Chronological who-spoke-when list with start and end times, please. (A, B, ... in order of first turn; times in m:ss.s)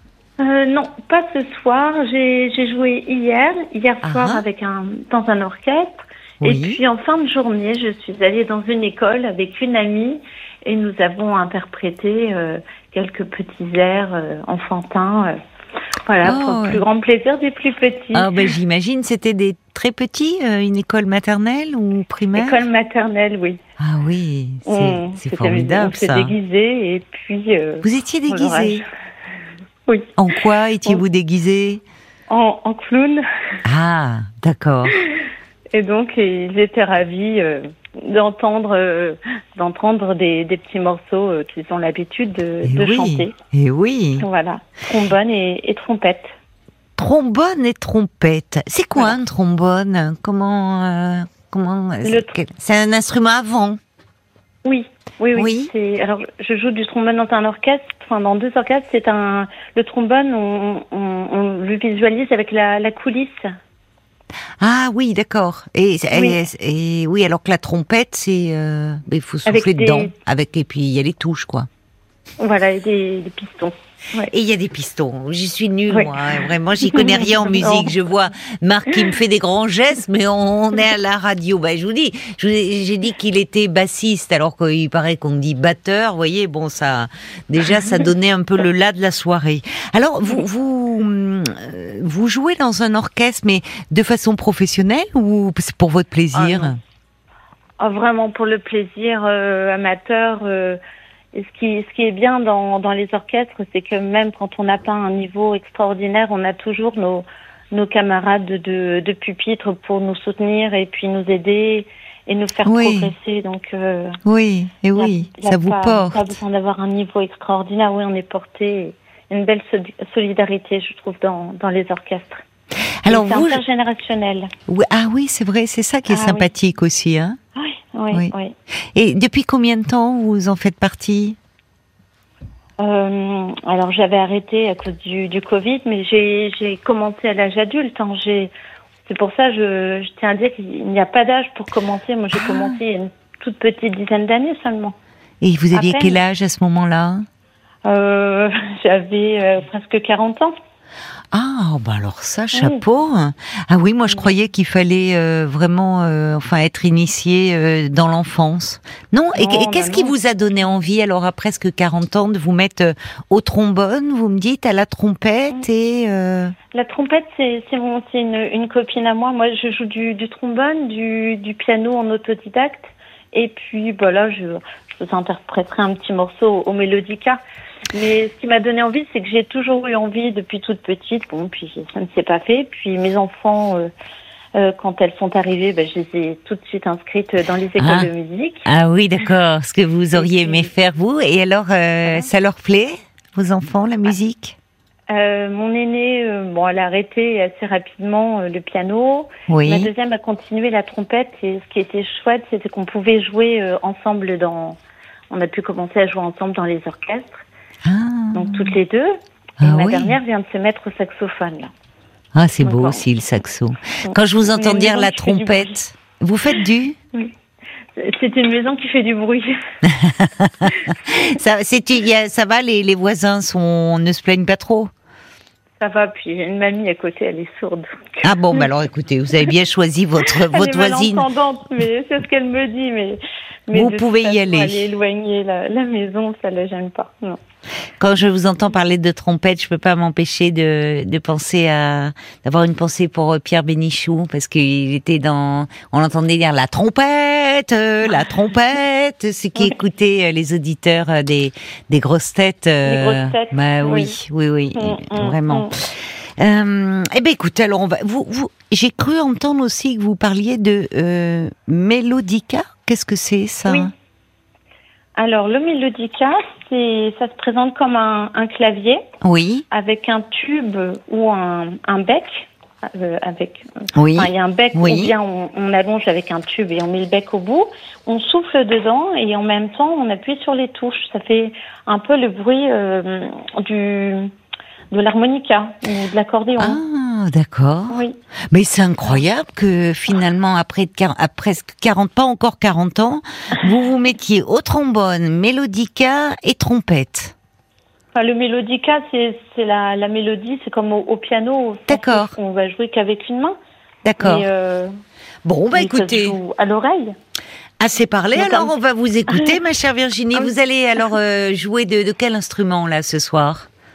0:00.4-0:15.3 A
0:04.0-0:04.4 B
0:06.4-0:06.8 B
0:16.1-0:18.3 A
0:16.2-0:16.8 B
0:18.1-0:22.6 B
0:22.3-0:23.6 A
0:23.8-0:26.3 B
0:24.6-0:28.8 A
0:27.8-0:28.8 B
0:30.2-0:31.8 B
0:32.3-0:33.2 A
0:33.6-0:35.0 B
0:35.7-0:43.3 A
0:42.6-0:44.3 B
0:44.2-0:46.3 A
0:47.0-0:53.8 B
0:52.0-0:52.3 A
0:54.6-1:03.4 A
0:55.3-0:55.7 B
1:04.6-1:11.7 B
1:06.1-1:06.4 A
1:09.4-1:10.1 A
1:12.4-1:14.3 A
1:14.3-1:36.8 B
1:15.9-1:17.9 A
1:36.3-1:36.7 A
1:37.8-1:40.8 A
1:41.3-1:54.2 A
1:52.6-1:53.1 B
1:54.2-1:56.3 B
1:54.9-2:02.4 A
2:03.0-2:03.6 B
2:03.1-2:04.5 A
2:04.7-2:07.4 B
2:06.1-2:06.5 A
2:07.6-2:08.5 A
2:08.9-2:11.4 B
2:12.8-2:18.5 A
2:19.0-2:24.9 A
2:22.3-2:22.8 B
2:25.4-2:27.2 B
2:25.7-2:26.2 A
2:27.8-2:30.5 A
2:31.3-2:46.5 B
2:32.5-2:32.8 A
2:39.3-2:40.1 A
2:46.7-2:57.4 A
2:57.9-3:03.9 A
3:04.5-3:08.6 A
3:07.8-3:08.1 B
3:08.6-3:14.6 B
3:10.1-3:10.7 A
3:15.1-3:24.8 A
3:19.5-3:19.9 B
3:25.3-3:27.4 A
3:27.8-3:28.7 B
3:28.3-3:31.7 A
3:29.6-3:30.2 B
3:32.3-3:37.0 B
3:32.6-3:33.0 A
3:34.0-3:35.8 A
3:38.0-3:39.5 A
3:39.9-3:44.9 B
3:45.8-3:48.7 A
3:48.2-3:51.3 B
3:50.4-3:57.4 A
3:53.7-3:54.8 B
3:58.0-4:23.9 B
4:12.8-4:14.2 A
4:14.7-4:15.7 A
4:25.2-4:29.0 A
4:29.2-4:29.6 B
4:29.7-4:44.3 A
4:33.9-4:35.1 B
4:44.9-4:46.8 A
4:46.6-4:57.3 B
4:47.9-4:48.2 A
4:58.1-5:03.6 A
5:01.9-5:02.3 B
5:04.0-5:04.5 B
5:04.2-5:04.9 A
5:05.4-5:06.4 B
5:05.7-5:07.1 A
5:07.8-5:13.7 B
5:08.3-5:08.7 A
5:09.3-5:09.5 A